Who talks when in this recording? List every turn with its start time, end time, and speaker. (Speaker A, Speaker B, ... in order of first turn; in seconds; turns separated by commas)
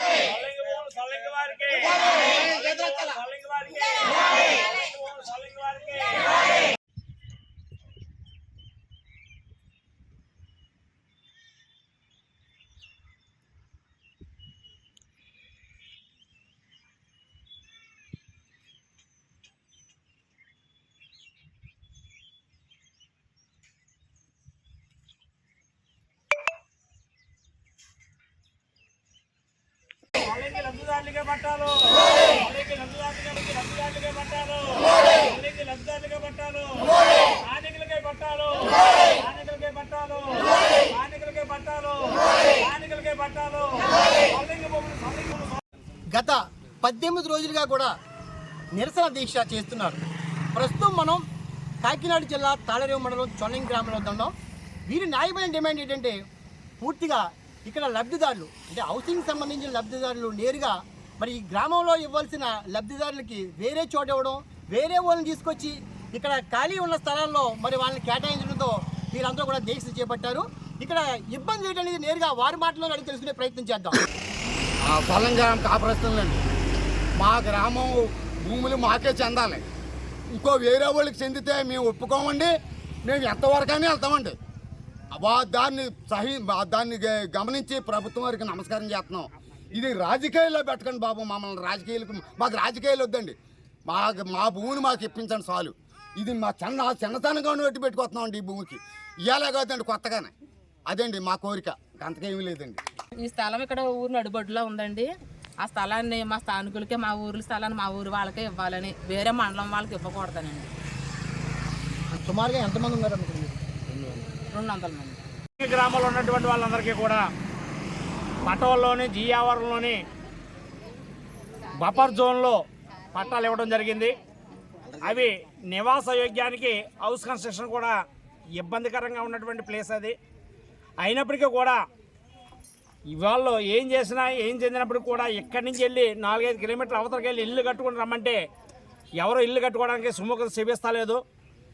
Speaker A: 0.2-6.3, Speaker A: 30.2-45.6, Speaker B: 46.1-47.9, Speaker B: 48.7-50.0, Speaker B: 50.5-51.2, Speaker B: 51.8-54.3, Speaker B: 54.9-56.1, Speaker B: 56.8-74.0, Speaker C: 74.9-76.4, Speaker C: 77.2-79.6, Speaker C: 80.3-82.5, Speaker C: 83.0-84.3, Speaker C: 85.1-93.3, Speaker C: 93.9-100.3, Speaker C: 100.9-102.8, Speaker D: 103.2-105.1, Speaker D: 105.6-110.7, Speaker B: 112.1-113.6, Speaker D: 114.5-115.2, Speaker A: 115.6-117.2, Speaker A: 118.4-120.0, Speaker A: 121.8-122.6, Speaker A: 123.1-124.1, Speaker A: 125.0-128.0, Speaker A: 128.6-130.1, Speaker A: 131.0-131.8, Speaker A: 133.1-138.4, Speaker A: 139.2-141.2